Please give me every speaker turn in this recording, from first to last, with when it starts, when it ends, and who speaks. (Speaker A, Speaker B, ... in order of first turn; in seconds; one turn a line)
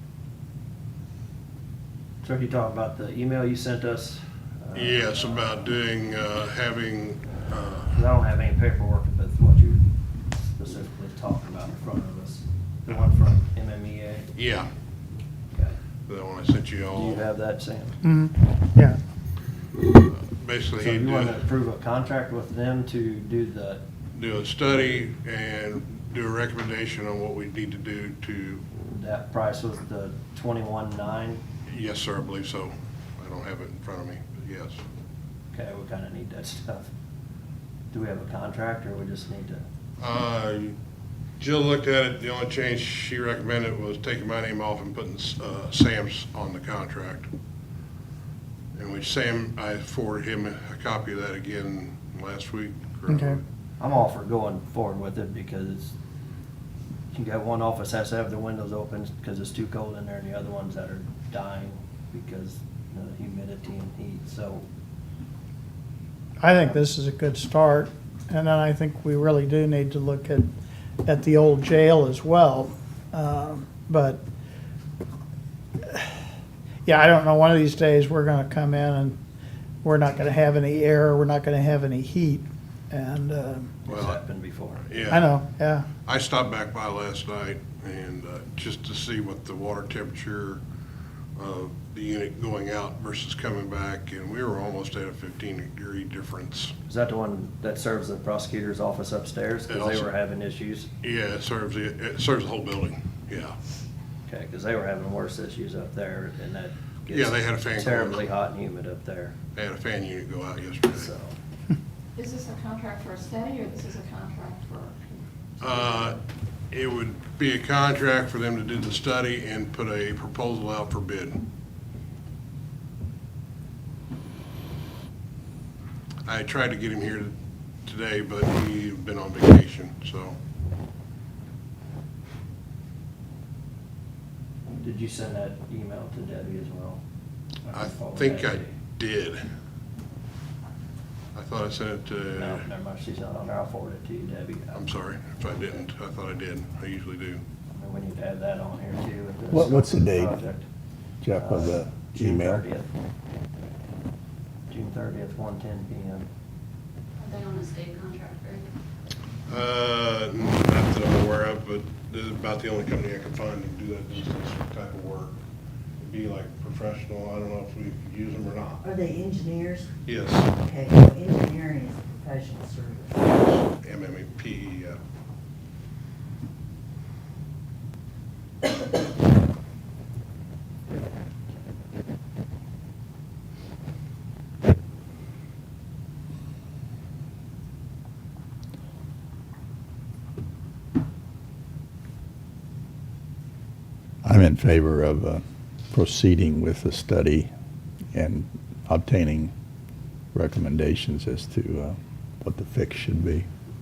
Speaker A: 2.2-5.4
Speaker B: 4.7-8.0
Speaker A: 7.9-9.8
Speaker A: 10.6-14.3
Speaker B: 14.3-14.7
Speaker B: 16.1-17.2
Speaker A: 16.9-18.0
Speaker C: 18.0-19.0
Speaker B: 20.1-21.3
Speaker A: 20.8-23.8
Speaker B: 24.1-28.6
Speaker A: 28.9-31.4
Speaker B: 31.7-34.8
Speaker A: 35.5-36.9
Speaker A: 37.9-39.6
Speaker B: 40.0-40.8
Speaker B: 41.4-47.3
Speaker B: 48.7-53.3
Speaker C: 53.1-53.4
Speaker A: 53.8-55.9
Speaker A: 57.1-64.6
Speaker C: 66.4-70.5
Speaker C: 71.0-74.2
Speaker C: 75.8-76.2
Speaker C: 76.8-79.2
Speaker C: 79.8-83.8
Speaker A: 83.9-84.8
Speaker B: 83.9-84.2
Speaker B: 84.8-85.3
Speaker C: 85.1-85.9
Speaker B: 86.0-90.6
Speaker B: 91.3-96.8
Speaker A: 96.9-100.9
Speaker B: 99.7-100.1
Speaker B: 101.0-103.6
Speaker A: 104.3-109.3
Speaker B: 107.1-108.2
Speaker B: 109.5-111.1
Speaker A: 110.9-111.3
Speaker D: 112.2-115.9
Speaker B: 115.6-116.2
Speaker B: 116.7-121.4
Speaker B: 126.2-130.4
Speaker A: 134.8-137.0
Speaker A: 137.7-138.8
Speaker B: 137.7-139.4
Speaker B: 141.3-142.6
Speaker A: 142.4-144.8
Speaker B: 144.7-147.4
Speaker A: 147.8-150.7
Speaker E: 149.5-150.3
Speaker E: 151.2-152.6
Speaker A: 151.3-152.9
Speaker A: 154.7-156.3
Speaker D: 157.2-158.7
Speaker B: 159.4-165.4
Speaker B: 166.0-168.8
Speaker F: 168.8-169.9
Speaker B: 170.1-170.5
Speaker F: 170.6-173.2
Speaker B: 173.2-175.0
Speaker E: 194.2-197.5
Speaker E: 198.1-199.5
Speaker E: 200.3-203.5